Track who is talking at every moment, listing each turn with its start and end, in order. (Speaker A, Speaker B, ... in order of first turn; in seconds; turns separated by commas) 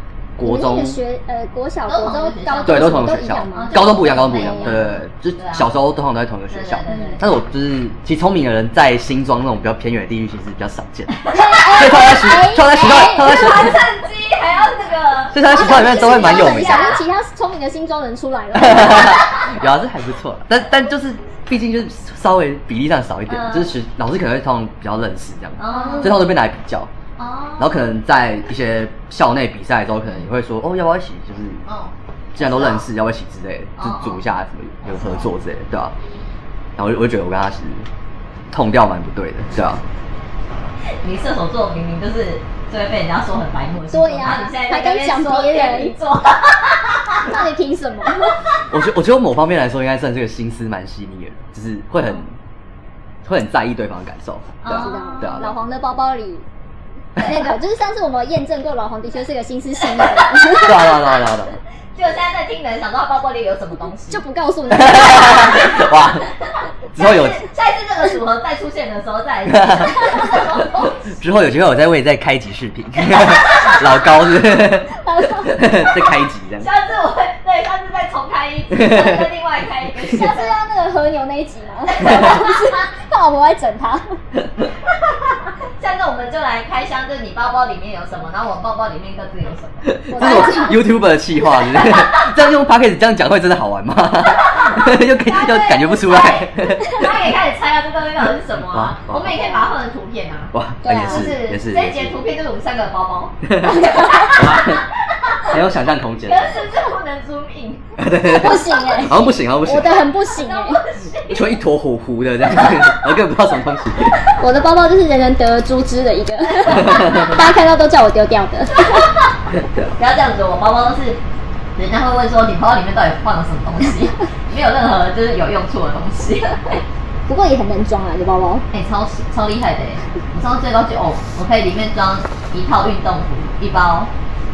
Speaker A: 0.4-1.0, Speaker B: 0.4-4.9, Speaker C: 1.9-5.7, Speaker A: 2.6-13.8, Speaker C: 6.5-7.3, Speaker B: 6.9-7.2, Speaker C: 11.1-11.5, Speaker B: 11.3-13.3, Speaker C: 12.8-17.0, Speaker A: 15.3-17.0, Speaker B: 15.5-19.3, Speaker A: 18.6-26.9, Speaker C: 23.3-23.8, Speaker C: 25.6-26.2, Speaker B: 25.7-26.2, Speaker C: 27.2-27.8, Speaker A: 27.6-31.6, Speaker C: 31.6-32.9, Speaker A: 32.4-36.0, Speaker C: 33.8-34.2, Speaker C: 34.8-35.3, Speaker A: 36.8-37.9, Speaker A: 38.5-39.8, Speaker C: 41.0-47.4, Speaker B: 43.9-46.0, Speaker B: 47.1-48.4, Speaker A: 48.7-52.4, Speaker A: 53.2-55.5, Speaker C: 54.6-55.5, Speaker B: 54.7-56.5, Speaker C: 57.2-57.5, Speaker B: 57.2-60.9, Speaker A: 60.5-61.6, Speaker C: 61.9-64.2, Speaker B: 64.1-65.5, Speaker A: 64.7-66.3, Speaker A: 66.9-67.5, Speaker C: 67.0-71.1, Speaker A: 69.5-69.9, Speaker A: 71.1-76.7, Speaker C: 73.2-73.7, Speaker B: 75.0-75.6, Speaker C: 76.6-80.6, Speaker A: 78.7-79.3, Speaker B: 80.1-84.2, Speaker C: 81.9-82.9, Speaker C: 85.2-90.5, Speaker A: 89.9-97.2, Speaker B: 90.1-90.8, Speaker C: 91.7-92.2, Speaker C: 94.5-100.5, Speaker A: 98.7-99.3, Speaker A: 100.5-102.2, Speaker B: 100.8-101.3, Speaker C: 101.0-105.5, Speaker A: 103.5-104.8, Speaker A: 105.5-106.6, Speaker C: 106.2-109.3, Speaker A: 108.0-110.0, Speaker B: 108.2-110.8, Speaker C: 110.3-111.6, Speaker A: 111.3-114.2, Speaker B: 114.4-119.1, Speaker A: 116.7-117.5, Speaker A: 119.5-119.9, Speaker C: 120.0-121.2, Speaker C: 121.8-126.8, Speaker B: 127.3-128.7, Speaker C: 128.7-134.1